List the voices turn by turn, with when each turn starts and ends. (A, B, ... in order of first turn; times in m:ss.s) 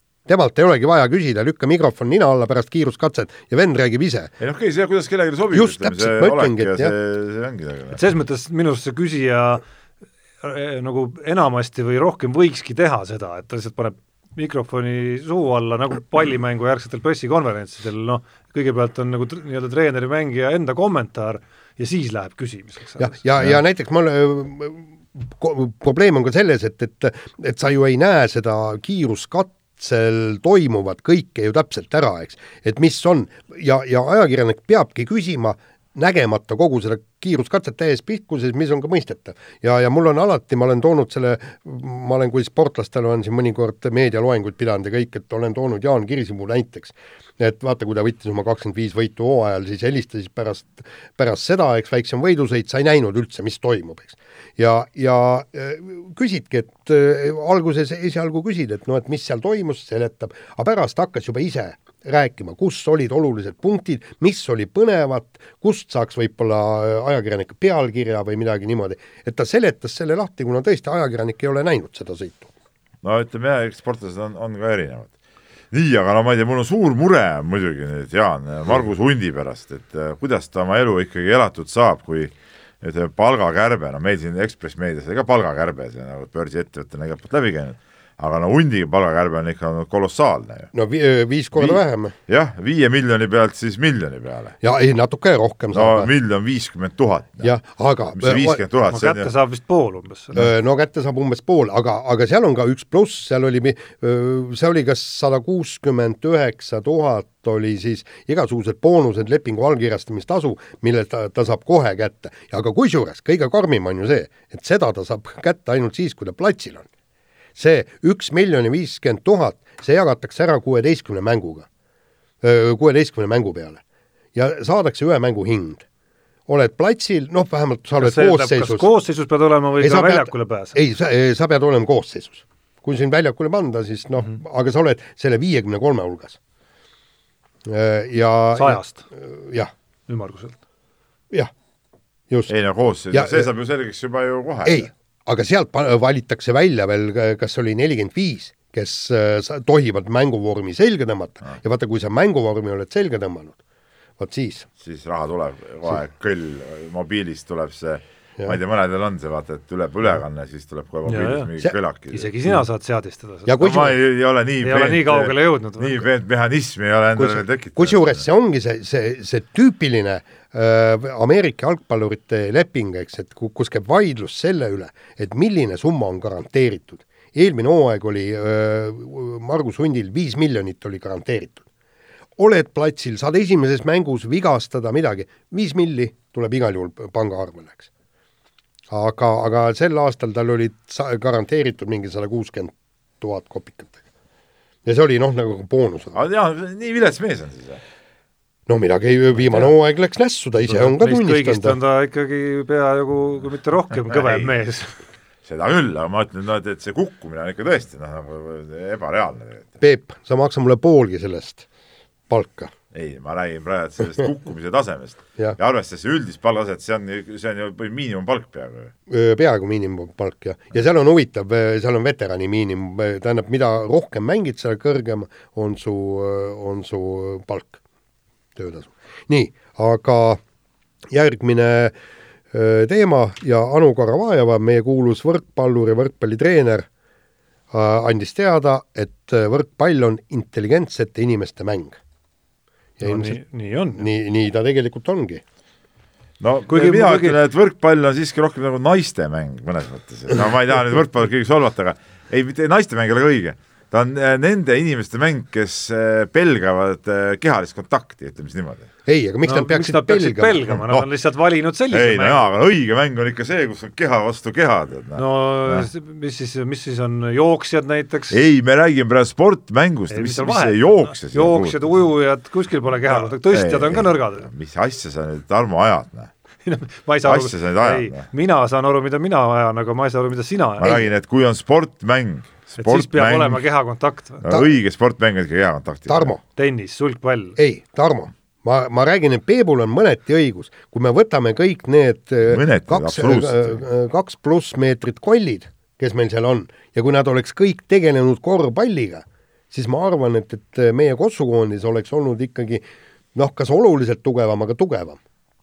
0:00.2-0:04.3 A
0:04.4-0:08.0 B
0:05.5-0:06.9 A
0:07.9-0:09.6 C
0:10.4-0:23.2 C
0:23.0-1:12.5 A
1:13.0-1:15.1 B
1:15.7-1:30.7 B
1:30.7-1:32.1 A
1:31.5-1:34.5 B
1:34.6-1:36.1 A
1:35.7-1:37.5 B
1:37.4-1:38.6 A
1:38.1-1:39.3 B
1:38.9-1:40.5 C
1:40.3-1:56.8 A
1:57.5-2:01.6 A
2:02.4-2:03.8 A
2:04.3-2:05.8 A
2:06.5-2:08.9 A
2:08.0-2:10.7 C
2:09.8-2:16.4 A
2:17.6-2:19.7 A
2:18.5-2:19.1 C
2:20.1-2:20.6 C
2:22.5-2:24.9 B
2:23.1-2:23.5 A
2:24.6-2:33.6 A
2:34.2-2:34.7 A
2:34.8-2:42.3 B
2:41.0-2:41.5 C
2:42.1-2:43.7 C
2:43.4-2:43.9 A
2:43.6-2:48.2 B
2:44.6-2:46.0 C
2:47.2-3:01.6 A
3:02.4-3:07.9 A
3:08.9-3:14.0 A
3:14.8-3:16.2 A
3:16.1-3:17.8 B
3:18.7-3:21.8 A
3:19.4-3:19.7 B
3:20.7-3:25.0 C
3:24.1-3:24.5 B
3:25.4-3:29.7 B
3:29.8-3:31.6 A
3:32.3-3:32.7 A
3:32.9-3:38.9 B
3:39.1-3:47.8 A
3:48.6-3:50.4 A
3:51.1-3:51.9 A
3:52.5-3:56.9 A
3:57.7-4:02.0 A
4:03.0-4:03.4 A
4:03.0-4:04.0 C
4:04.0-4:05.4 A
4:06.4-4:18.9 B
4:06.7-4:07.4 C
4:19.0-4:20.7 A
4:19.4-4:22.4 C
4:21.9-4:25.9 B
4:25.2-4:28.4 C
4:28.3-4:31.8 B
4:30.1-4:34.5 C
4:33.1-4:36.3 B
4:36.6-4:41.0 C
4:37.2-4:38.3 B
4:40.8-4:43.6 B
4:42.8-4:44.4 C
4:44.4-4:46.3 B
4:46.1-4:46.4 A
4:46.6-4:47.6 C
4:47.6-5:02.8 A
4:52.5-4:53.8 B
5:03.3-5:05.2 A